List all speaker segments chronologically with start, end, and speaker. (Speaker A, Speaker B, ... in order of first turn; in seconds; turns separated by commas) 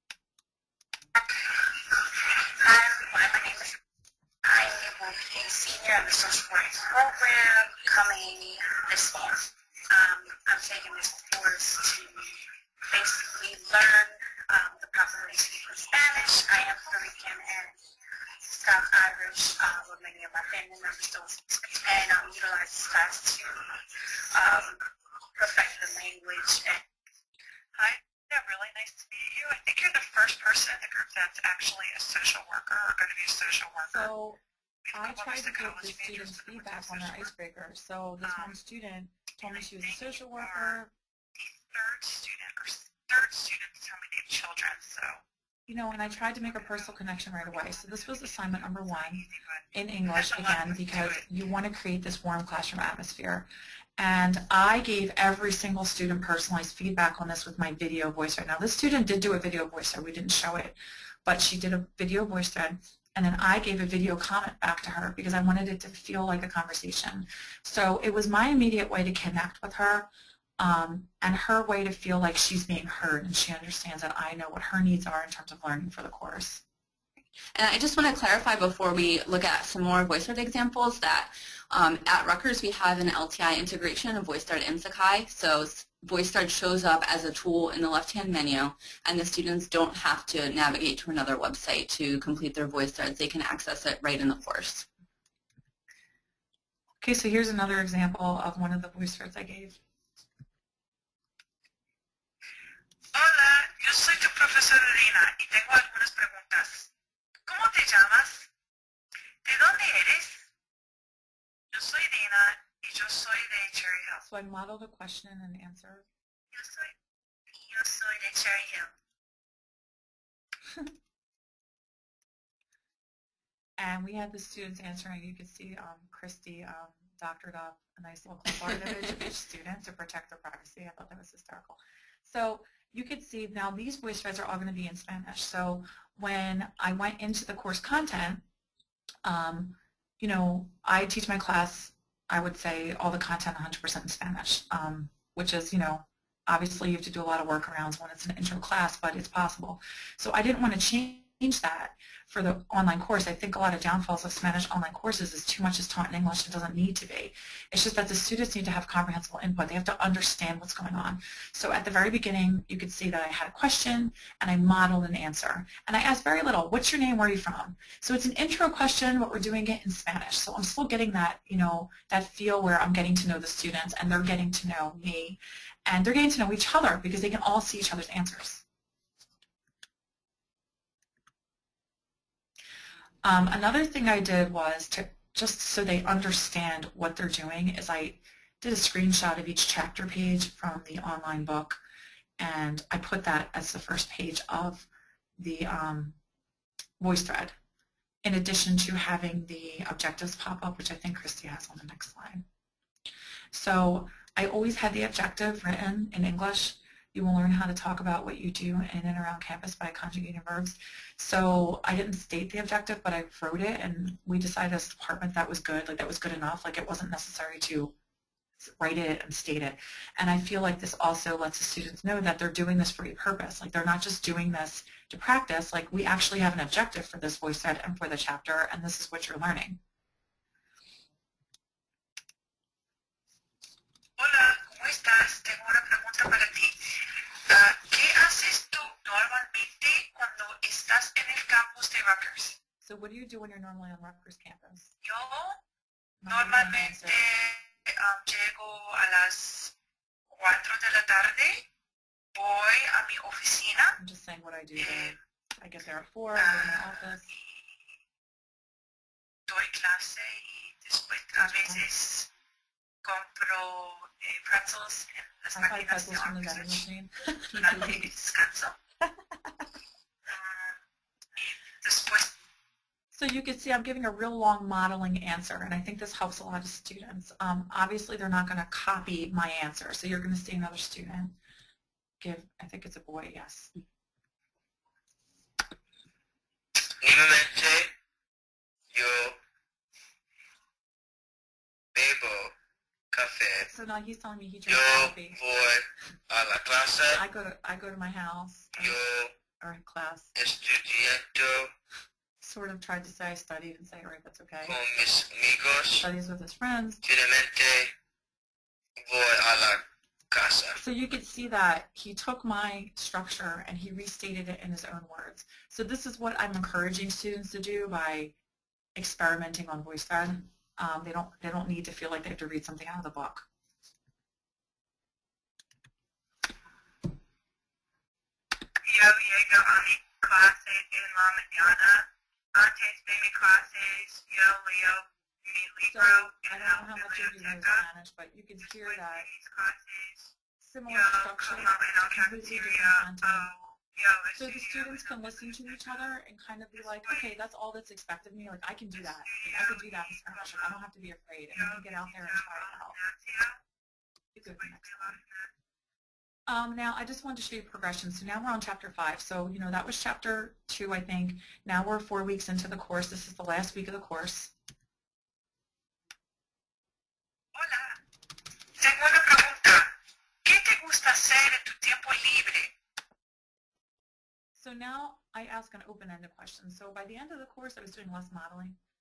Speaker A: 1.5-3.8, Speaker A: 4.4-12.3, Speaker A: 12.9-17.7, Speaker A: 18.4-23.8, Speaker A: 24.3-24.8, Speaker A: 25.4-26.8, Speaker B: 27.8-34.1, Speaker C: 33.8-34.4, Speaker B: 34.9-37.3, Speaker C: 34.9-40.9, Speaker B: 38.2-38.5, Speaker B: 39.4-40.8, Speaker B: 41.4-45.2, Speaker C: 45.7-76.6, Speaker B: 46.4-51.2, Speaker D: 77.5-94.9, Speaker C: 97.0-99.8, Speaker B: 103.1-106.9, Speaker B: 107.5-108.5, Speaker B: 109.5-110.5, Speaker B: 111.7-114.2, Speaker C: 114.2-116.1, Speaker B: 116.5-116.9, Speaker B: 117.7-118.9, Speaker C: 123.8-138.4, Speaker C: 139.2-178.6, Speaker C: 183.2-191.8, Speaker C: 192.4-196.2, Speaker C: 197.0-197.6, Speaker C: 198.2-202.4, Speaker C: 203.5-217.9, Speaker C: 218.6-229.8, Speaker B: 234.2-236.9, Speaker B: 237.5-242.6, Speaker C: 242.8-244.9, Speaker B: 245.0-245.6, Speaker C: 246.2-247.2, Speaker B: 246.3-249.7, Speaker B: 250.3-251.7, Speaker B: 252.4-254.0, Speaker C: 254.0-257.3, Speaker B: 254.8-255.2, Speaker B: 256.4-257.6, Speaker B: 259.5-262.3, Speaker C: 261.4-261.9, Speaker B: 263.0-266.8, Speaker C: 265.5-268.1, Speaker B: 267.5-268.8, Speaker B: 270.3-270.7, Speaker B: 271.4-272.4, Speaker C: 273.1-281.4, Speaker C: 282.2-283.7, Speaker E: 287.0-287.9, Speaker E: 288.9-289.4, Speaker E: 291.9-292.5, Speaker E: 293.1-293.7, Speaker C: 293.7-295.4, Speaker E: 294.7-297.2, Speaker C: 297.1-298.9, Speaker E: 298.8-299.3, Speaker C: 299.6-300.3, Speaker E: 300.4-301.7, Speaker C: 302.4-304.8, Speaker E: 304.6-306.1, Speaker C: 306.0-307.0, Speaker E: 307.0-307.9, Speaker E: 309.0-310.8, Speaker C: 310.8-318.4, Speaker C: 319.0-323.5, Speaker B: 328.8-337.8, Speaker C: 335.9-339.3, Speaker B: 338.8-340.3, Speaker C: 340.6-343.5, Speaker B: 340.9-345.9, Speaker C: 344.4-353.0, Speaker B: 349.3-350.7, Speaker B: 351.6-353.6, Speaker C: 354.3-355.2, Speaker B: 354.5-355.5, Speaker C: 356.5-364.5, Speaker B: 367.6-368.0, Speaker B: 368.8-369.9, Speaker B: 370.4-372.7, Speaker C: 374.6-378.8